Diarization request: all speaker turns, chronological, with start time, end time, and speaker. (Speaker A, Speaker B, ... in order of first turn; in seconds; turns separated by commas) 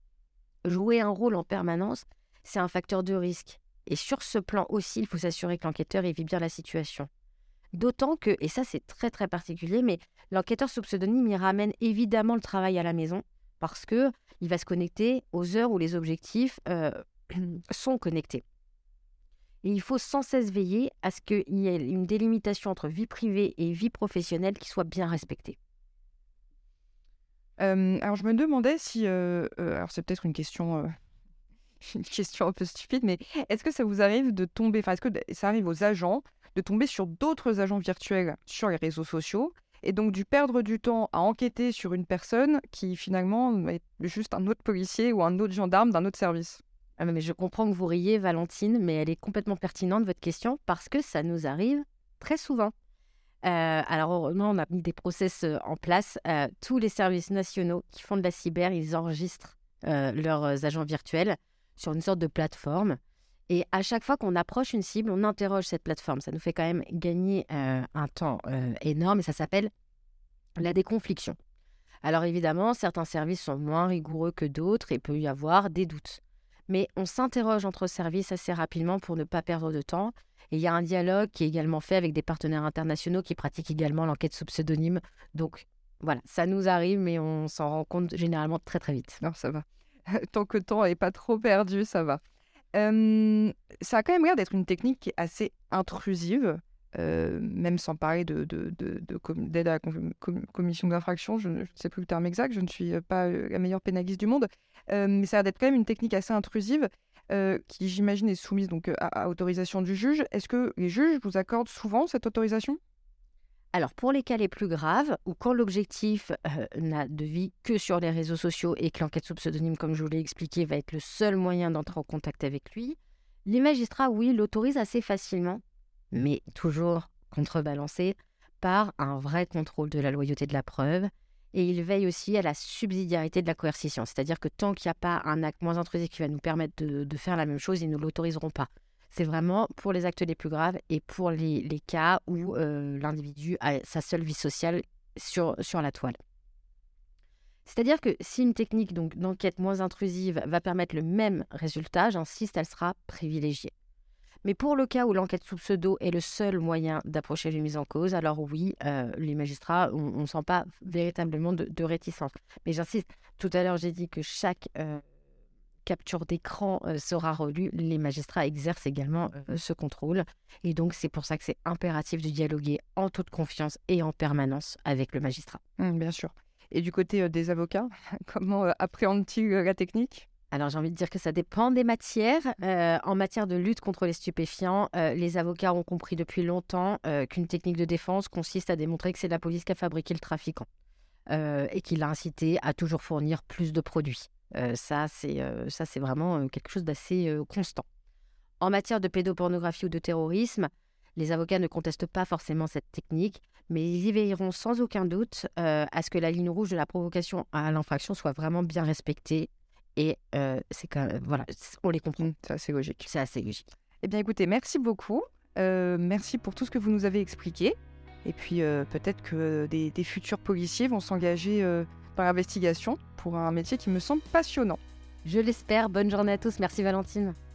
Speaker A: 0.6-7.1, Speaker A: 7.7-18.4, Speaker A: 19.6-25.6, Speaker B: 27.6-30.9, Speaker B: 31.8-46.6, Speaker A: 47.0-52.7, Speaker A: 53.4-69.7, Speaker A: 70.6-71.4, Speaker A: 72.0-89.2, Speaker B: 89.2-92.2, Speaker B: 92.7-112.8, Speaker A: 113.7-146.2, Speaker A: 147.7-153.7, Speaker A: 154.4-165.0, Speaker A: 165.8-175.6, Speaker B: 175.8-180.3, Speaker A: 180.5-190.7, Speaker A: 191.3-197.8, Speaker A: 198.6-212.3, Speaker B: 212.2-213.1, Speaker A: 213.0-213.7, Speaker B: 214.0-224.8, Speaker A: 225.2-227.4